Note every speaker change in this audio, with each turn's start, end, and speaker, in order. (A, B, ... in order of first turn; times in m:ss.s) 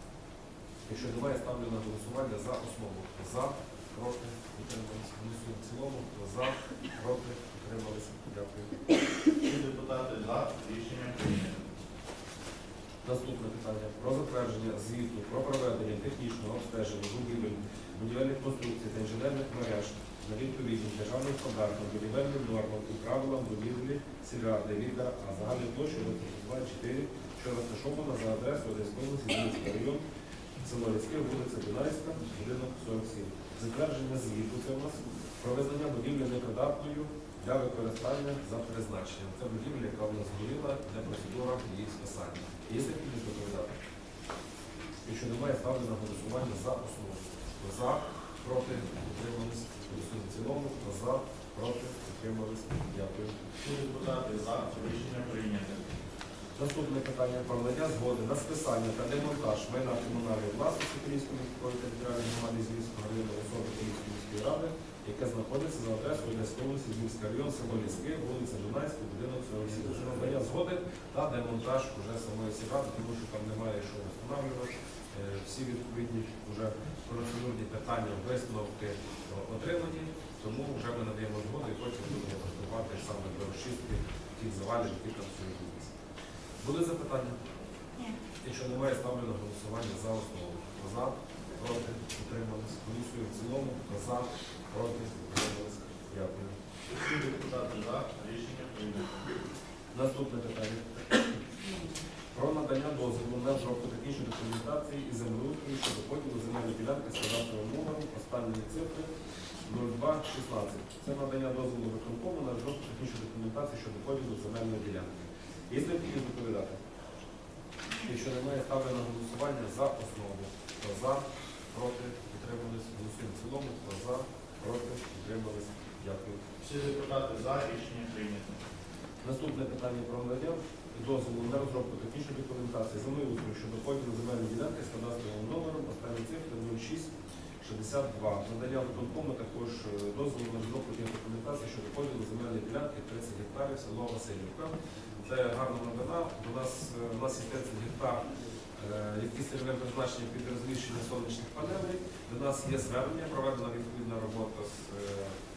0:00.9-0:08.8 A
0:09.4-0:11.7 B
0:13.0-0:30.0 A
0:30.6-0:43.8 A
0:45.0-0:53.4 A
0:53.6-0:55.9 B
0:56.6-1:25.9 A
1:26.6-1:27.4 A
1:28.4-1:36.6 A
1:36.9-1:39.3 B
1:39.9-1:41.3 A
1:42.3-1:49.1 A
1:49.7-1:56.8 A
1:58.0-2:06.4 A
2:06.6-2:08.6 B
2:09.2-2:28.2 A
2:28.8-2:35.4 A